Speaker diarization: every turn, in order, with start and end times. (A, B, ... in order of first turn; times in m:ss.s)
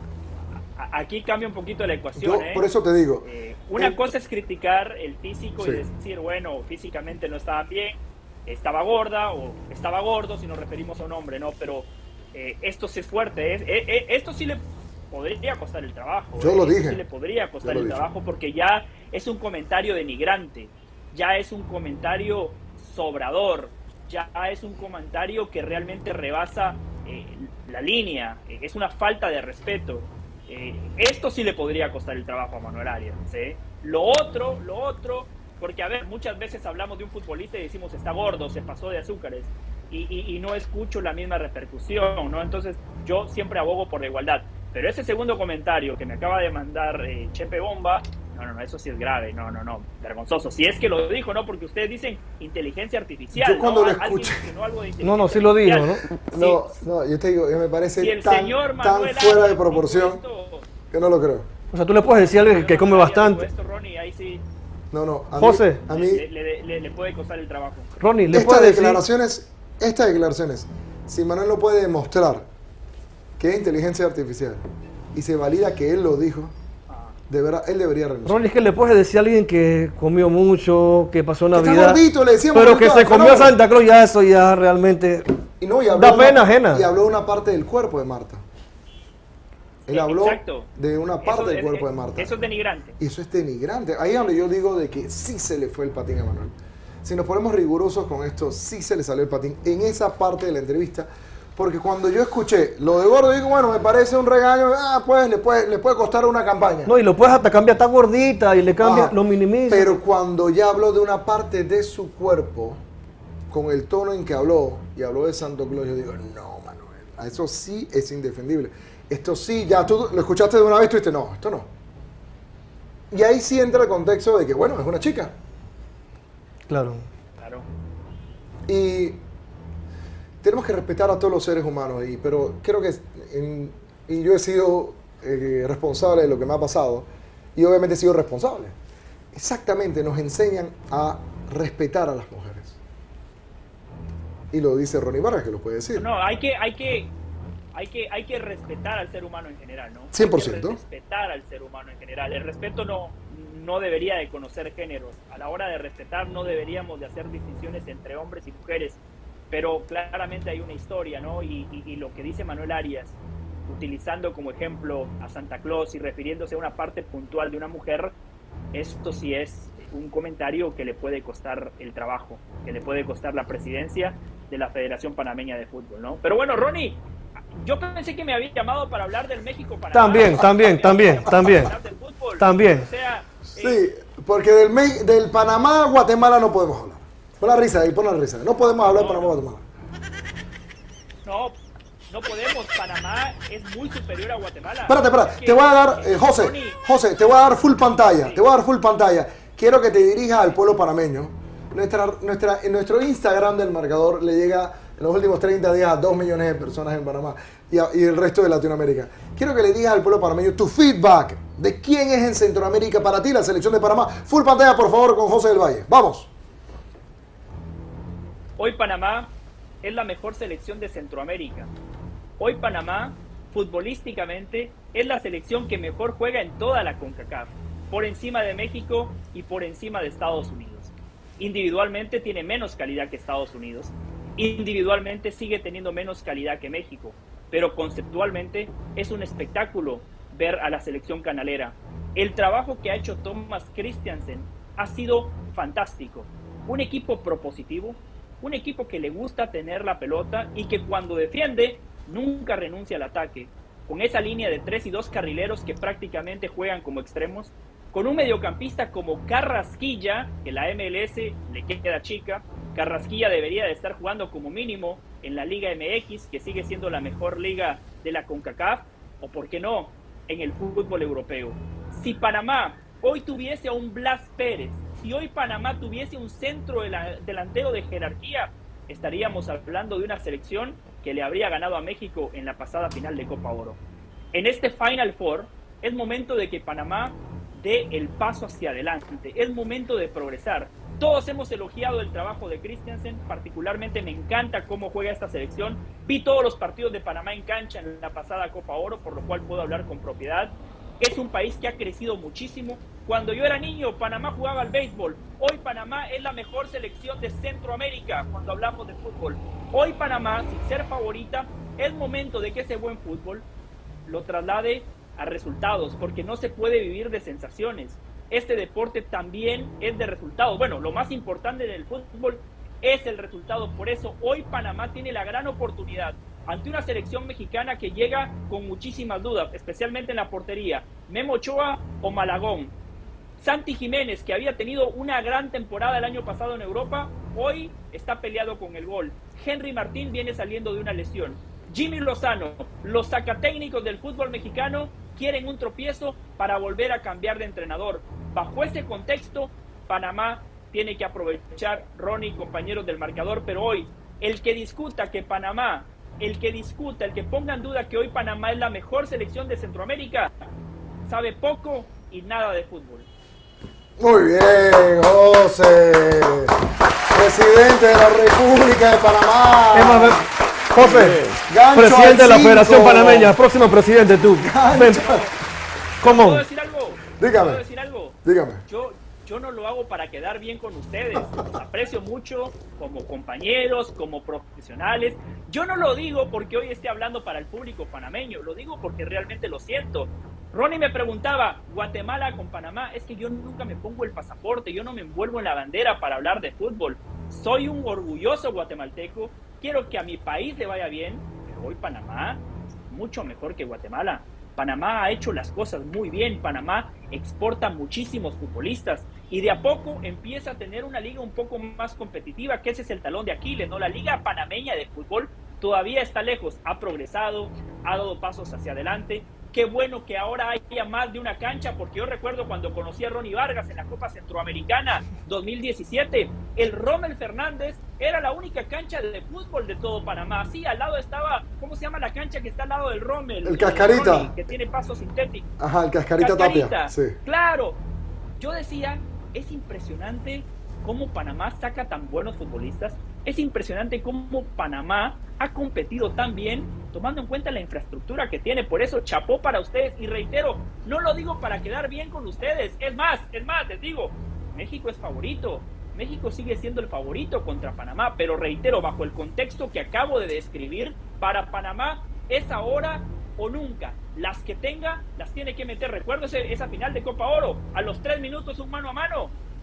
0:00.8-0:02.6 A
0:02.2-0:04.0 B
0:03.2-0:56.7 A
0:05.6-0:05.9 B
0:16.4-0:17.0 B
0:17.6-0:18.0 B
0:53.3-0:54.4 B
0:55.0-0:56.0 C
0:56.3-1:00.2 B
0:58.0-1:00.7 A
1:00.9-1:01.5 B
1:01.7-1:03.5 C
1:02.0-1:04.4 A
1:04.9-1:06.3 B
1:05.4-1:05.8 C
1:05.9-1:07.9 A
1:08.0-1:09.0 C
1:08.3-1:12.5 B
1:13.4-1:16.5 B
1:16.9-1:17.2 A
1:17.3-1:18.4 B
1:18.3-1:22.0 C
1:21.5-1:23.6 B
1:22.5-1:25.3 C
1:25.6-1:28.4 B
1:25.9-1:26.9 C
1:29.9-1:32.4 B
1:29.9-1:30.7 A
1:31.2-1:33.0 A
1:33.0-1:36.5 B
1:37.0-1:46.9 B
1:46.9-1:50.0 C
1:48.8-1:49.2 B
1:49.7-1:52.8 B
1:53.5-2:01.7 B
2:03.1-2:05.3 B
2:06.7-2:07.1 C
2:07.4-2:07.6 A
2:08.7-2:09.2 B
2:10.4-2:18.8 B
2:19.3-2:22.8 B
2:24.5-2:26.1 B
2:26.0-2:27.1 A
2:27.7-2:48.1 A
2:30.1-2:30.8 B
2:48.7-2:57.0 A
2:57.6-3:03.8 A
2:59.9-3:01.8 C
3:02.4-3:02.9 C
3:03.6-3:09.6 B
3:08.8-3:09.4 A
3:11.2-3:11.6 A
3:12.1-3:16.8 A
3:14.9-3:36.3 B
3:18.1-3:18.4 A
3:38.6-3:41.7 A
3:42.4-4:43.8 A
4:44.3-5:13.5 A
5:14.1-5:32.7 A
5:33.4-6:00.3 A
6:01.1-6:03.1 A
6:04.0-6:06.6 B
6:07.1-6:13.3 B
6:09.7-6:15.1 C
6:14.4-6:15.2 B
6:15.0-6:15.3 A
6:16.0-6:16.4 C
6:16.0-7:15.5 A
6:17.2-6:17.6 B
6:18.2-6:18.6 B
7:13.4-7:14.3 B
7:15.6-7:17.2 B
7:16.2-7:17.8 A
7:18.4-7:49.3 A